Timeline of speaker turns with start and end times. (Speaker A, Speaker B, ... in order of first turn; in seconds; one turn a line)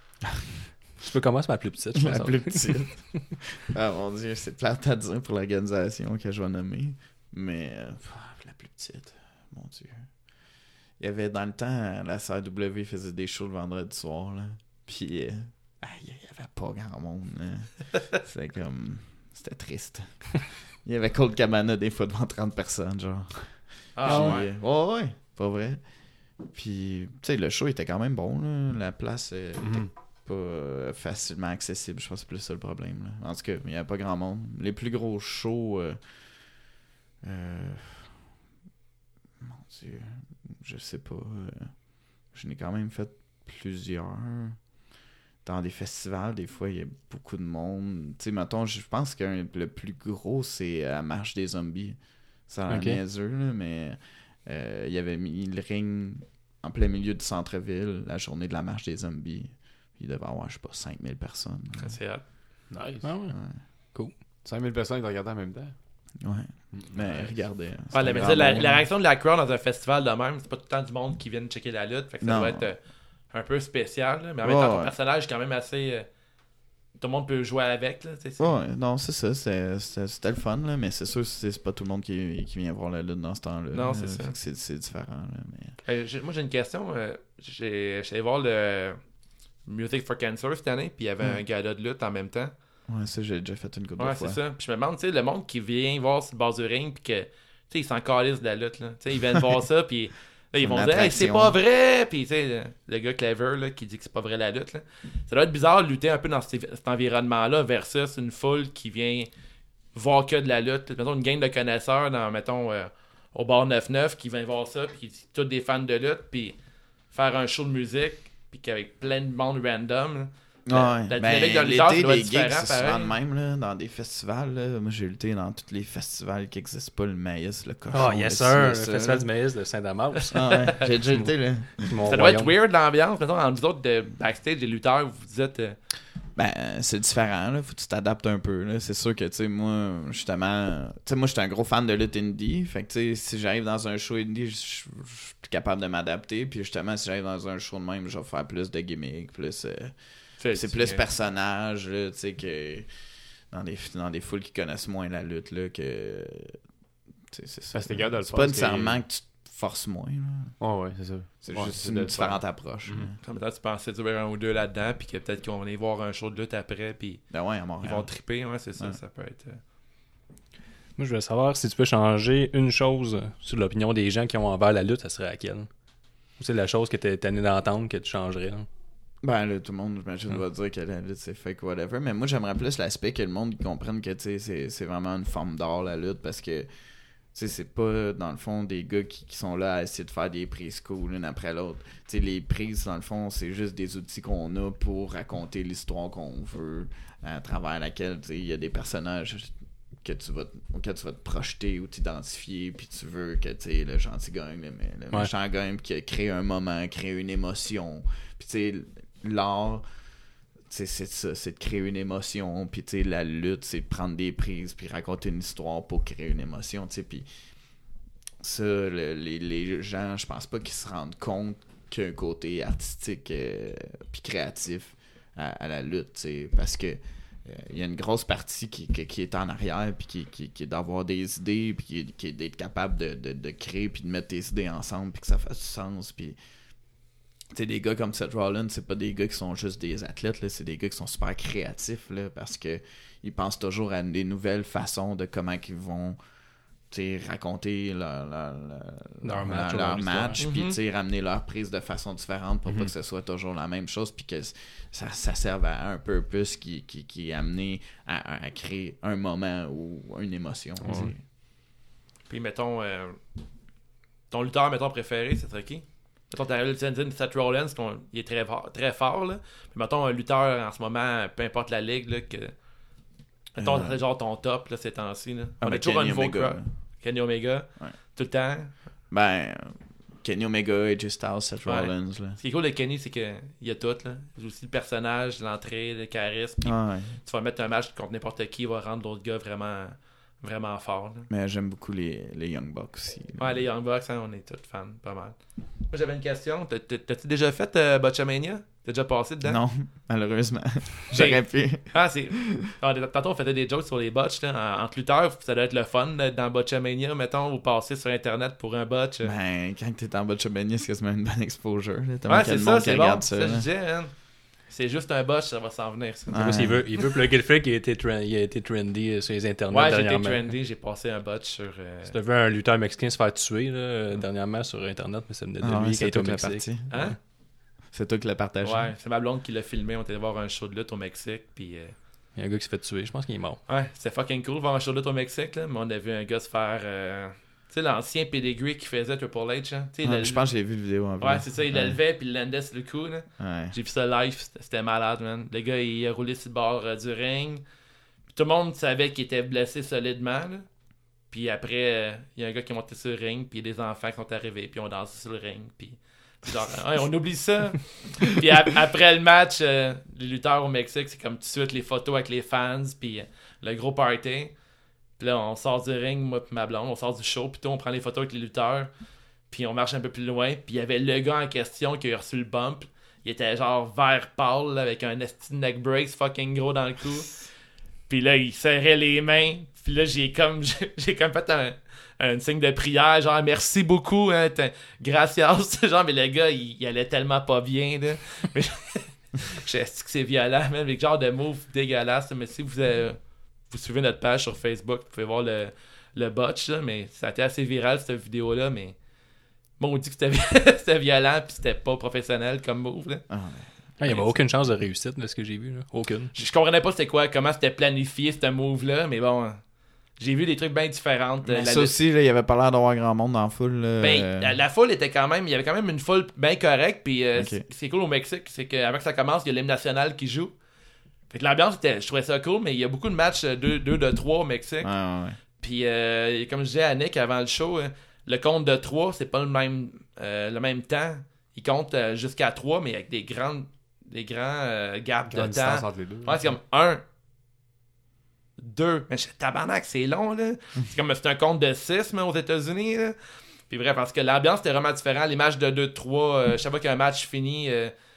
Speaker A: 1.0-3.1
Speaker B: 2.0-36.6
Speaker C: 23.9-24.5
Speaker A: 24.1-24.4
Speaker D: 29.6-29.9
Speaker B: 37.2-38.2
Speaker B: 39.4-44.7
Speaker B: 45.4-62.0
Speaker A: 52.7-53.0
Speaker C: 61.8-62.3
Speaker D: 62.7-63.1
Speaker A: 63.0-64.2
Speaker B: 63.3-63.6
Speaker D: 64.4-66.1
Speaker B: 66.2-68.9
Speaker D: 66.7-68.7
Speaker C: 67.9-76.2
Speaker B: 72.2-72.7
Speaker B: 74.4-74.9
Speaker C: 76.9-78.6
Speaker B: 78.4-85.8
Speaker C: 83.7-84.3
Speaker C: 85.8-92.5
Speaker B: 92.9-94.4
Speaker C: 94.0-109.3
Speaker B: 100.5-101.6
Speaker C: 109.9-123.1
Speaker B: 120.7-129.3
Speaker A: 127.9-132.5
Speaker B: 130.3-131.8
Speaker C: 132.1-135.8
Speaker B: 136.3-156.7
Speaker C: 150.4-151.0
Speaker B: 157.3-160.6
Speaker D: 157.7-159.0
Speaker D: 160.6-163.1
Speaker B: 161.4-163.2
Speaker C: 163.2-169.6
Speaker B: 167.3-169.0
Speaker A: 171.0-175.7
Speaker A: 176.3-178.7
Speaker B: 179.2-210.1
Speaker B: 210.7-236.4
Speaker B: 237.5-261.2
Speaker A: 249.2-250.4
Speaker C: 250.4-250.8
Speaker D: 252.7-252.9
Speaker D: 260.8-261.1
Speaker C: 262.3-263.3
Speaker C: 264.3-272.7
Speaker C: 273.5-278.8
Speaker B: 273.6-274.0
Speaker B: 275.6-276.7
Speaker B: 279.1-282.4
Speaker C: 281.6-291.3
Speaker B: 286.6-287.2
Speaker B: 291.3-293.6
Speaker C: 293.4-299.6
Speaker B: 299.4-302.2
Speaker C: 301.1-309.3
Speaker B: 309.2-313.7
Speaker C: 312.3-316.9
Speaker B: 316.3-316.9
Speaker A: 316.4-320.6
Speaker C: 319.7-322.1
Speaker A: 322.0-327.2
Speaker B: 325.6-328.9
Speaker C: 326.9-327.2
Speaker C: 328.6-332.0
Speaker A: 332.4-333.6
Speaker C: 333.7-347.6
Speaker B: 340.0-342.0
Speaker B: 343.4-343.7
Speaker C: 348.3-364.6
Speaker C: 365.2-368.9
Speaker C: 369.5-377.6
Speaker C: 378.1-399.1
Speaker C: 399.8-403.3
Speaker B: 403.3-404.4
Speaker A: 404.0-406.3
Speaker C: 404.0-404.3
Speaker C: 406.3-411.9
Speaker B: 411.4-414.6
Speaker C: 414.0-420.6
Speaker B: 417.3-417.6
Speaker C: 421.3-437.0
Speaker B: 424.8-425.4
Speaker D: 435.3-436.6
Speaker C: 438.6-447.9